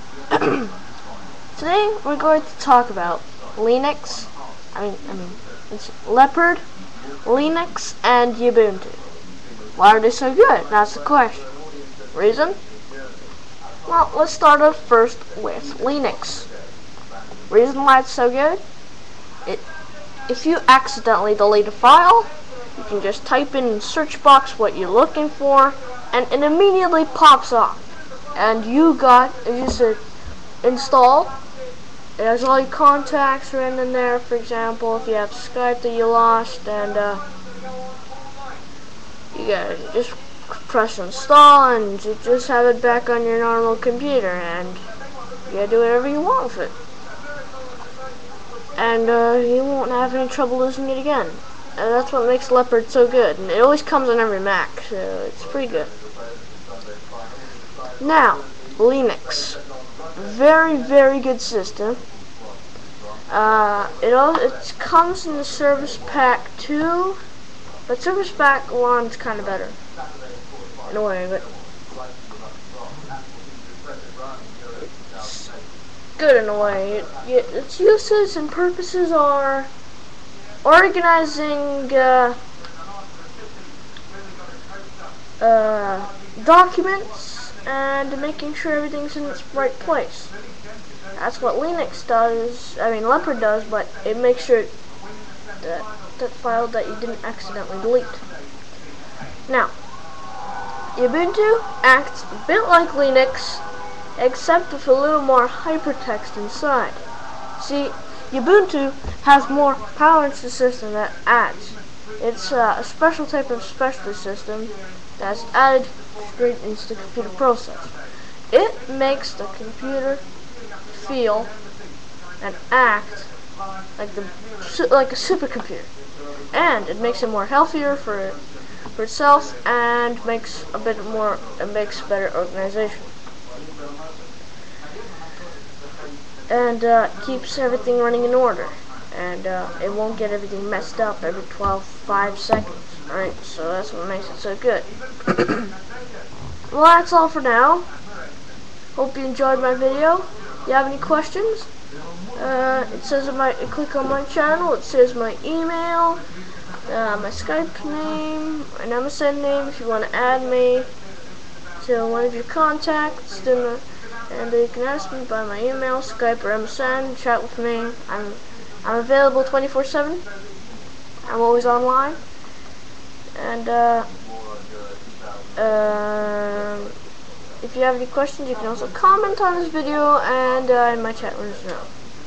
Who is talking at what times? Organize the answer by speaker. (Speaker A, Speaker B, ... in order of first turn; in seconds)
Speaker A: 0.3-0.7, 1.6-6.6, 7.2-9.0, 9.8-11.5, 12.1-12.6, 13.9-16.5, 17.5-18.6, 20.3-30.0, 30.6-31.3, 32.2-37.2, 39.3-44.8, 45.5-46.7, 48.8-55.9, 58.0-59.6, 60.2-62.0, 63.3-67.2, 67.9-69.8, 70.9-71.5, 74.8-75.5, 76.2-79.7, 80.6-82.4, 85.4-90.3, 91.2-94.7, 95.6-98.2, 99.5-99.7, 101.0-103.6, 104.2-107.0, 107.6-118.0, 118.5-120.2, 120.9-121.5, 122.4-123.3, 124.0-125.9, 126.5-133.1, 136.5-145.7, 146.7-147.9, 149.0-151.7, 152.3-156.2, 156.9-160.9, 161.8-170.2, 171.2-172.2, 173.3-174.1, 175.6-176.9, 177.6-181.9